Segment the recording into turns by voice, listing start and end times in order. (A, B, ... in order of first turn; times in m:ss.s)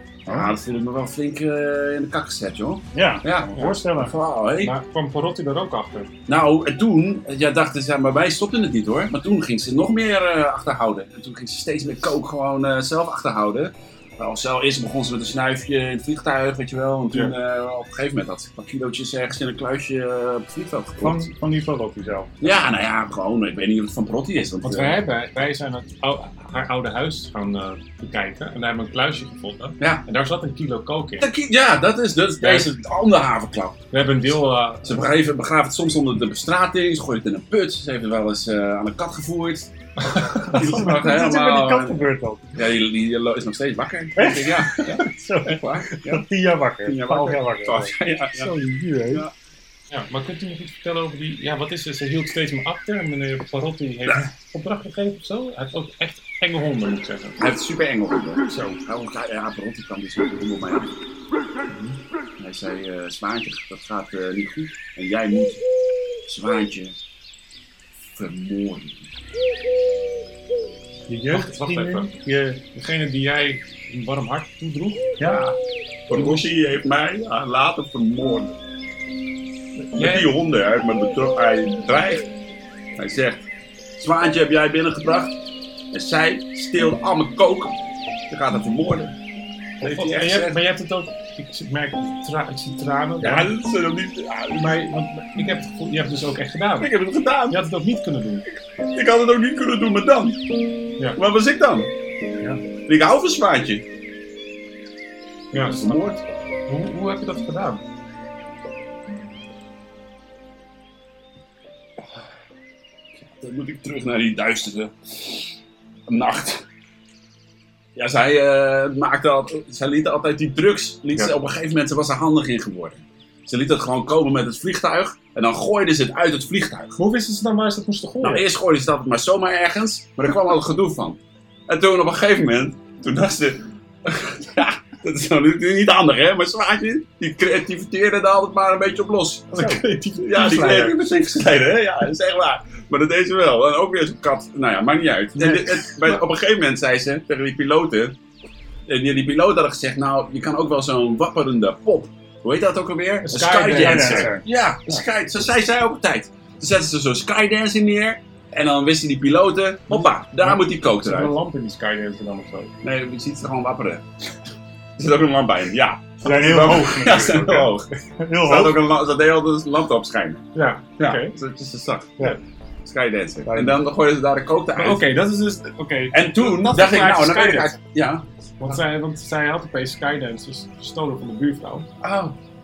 0:00.3-0:04.8 A
0:00.3-0:00.5 B
0:02.9-0:04.1 B
0:04.6-0:06.1 C
0:06.3-0:21.3 A
0:21.0-0:22.3 B
0:22.4-0:25.0 A
0:24.6-0:31.3 C
0:31.2-0:33.9 A
0:32.4-0:32.7 C
0:33.9-0:35.2 C
0:34.8-0:46.3 A
0:40.0-0:41.1 C
0:40.5-0:42.5 B
0:44.2-0:49.3 B
0:46.8-0:48.5 A
0:49.9-0:57.4 C
0:57.4-1:00.9 A
0:58.5-0:58.8 B
1:02.4-1:05.6 A
1:06.3-1:07.0 A
1:08.2-1:09.1 A
1:11.1-1:12.6 B
1:11.3-1:12.1 C
1:12.7-1:15.1 C
1:15.2-1:15.5 B
1:15.2-1:15.6 A
1:16.1-1:18.5 A
1:16.1-1:16.4 C
1:19.9-1:20.3 C
1:19.9-1:22.3 A
1:23.0-1:23.5 A
1:24.0-1:25.4 A
1:25.9-1:27.8 A
1:28.3-1:29.2 A
1:29.8-1:30.6 A
1:29.8-1:33.5 C
1:33.2-1:35.0 A
1:34.5-1:36.9 C
1:36.8-1:37.6 A
1:37.5-1:38.4 C
1:38.9-1:40.4 A
1:41.2-1:41.9 A
1:42.9-1:43.8 A
1:45.5-1:46.2 A
1:45.5-1:46.0 C
1:46.7-1:47.8 C
1:53.2-1:55.5 A
1:56.1-1:56.6 A
1:58.0-2:07.0 A
2:07.0-2:08.5 C
2:08.2-2:28.2 A
2:19.5-2:21.1 C
2:25.4-2:26.2 C
2:28.9-2:41.4 A
2:33.2-2:34.4 C
2:33.7-2:34.4 B
2:39.9-2:42.7 C
2:42.8-2:44.1 A
2:45.0-2:47.9 A
2:46.2-2:48.8 B
2:48.4-2:55.1 A
2:50.5-2:51.4 C
2:53.5-2:53.8 B
2:54.8-2:57.8 C
2:56.1-2:58.8 A
2:58.6-3:01.9 C
3:02.0-3:02.4 A